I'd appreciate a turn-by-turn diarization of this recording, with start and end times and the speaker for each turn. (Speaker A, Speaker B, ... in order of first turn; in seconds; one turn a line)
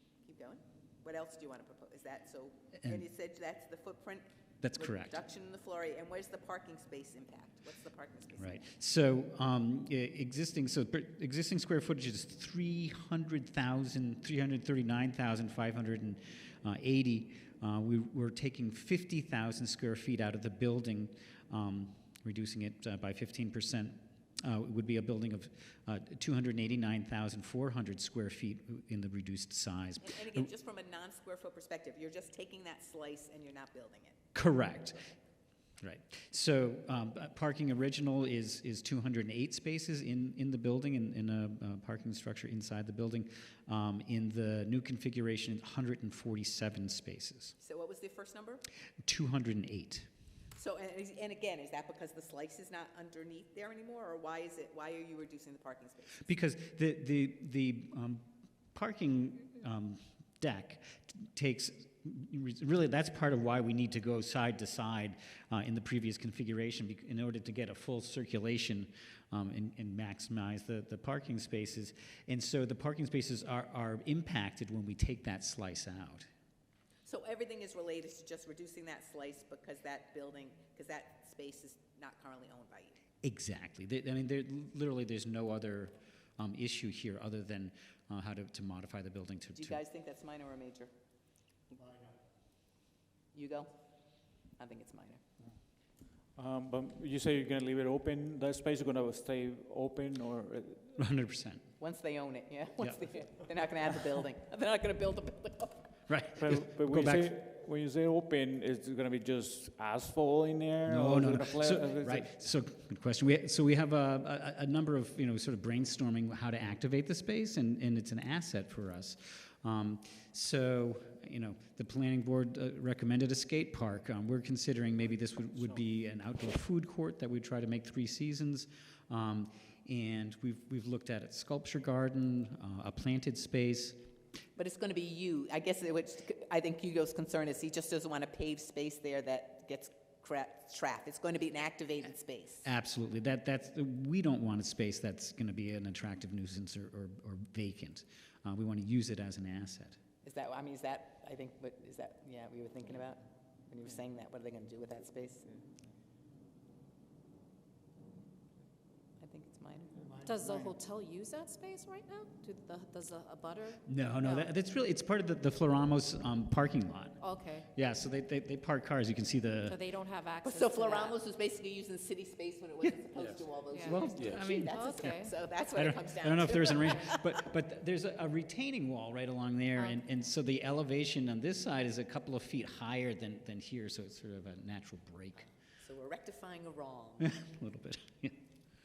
Speaker A: 0.2-8.6
Speaker B: 4.6-5.2
Speaker B: 8.4-30.5
Speaker A: 30.0-34.2
Speaker B: 34.3-35.1
Speaker B: 35.8-47.5
Speaker A: 47.6-48.6
Speaker B: 49.0-50.1
Speaker A: 50.5-56.3
Speaker B: 56.2-76.3
Speaker A: 77.0-83.0
Speaker B: 83.2-89.8
Speaker A: 89.5-90.9
Speaker A: 93.3-93.7
Speaker A: 94.5-95.2
Speaker C: 96.3-100.9
Speaker B: 101.0-101.6
Speaker A: 101.8-105.9
Speaker B: 106.1-107.3
Speaker C: 106.3-112.3
Speaker B: 110.9-134.0
Speaker A: 134.6-142.7
Speaker B: 142.6-150.0
Speaker A: 150.2-155.6
Speaker A: 159.2-159.9
Speaker D: 160.2-164.5
Speaker B: 163.9-169.8
Speaker D: 167.2-167.7
Speaker D: 169.7-171.2
Speaker A: 170.4-177.2
Speaker D: 173.7-175.3
Speaker B: 173.8-175.2
Speaker B: 175.7-185.5
Speaker D: 179.7-180.0
Speaker A: 185.4-187.3
Speaker B: 187.2-188.4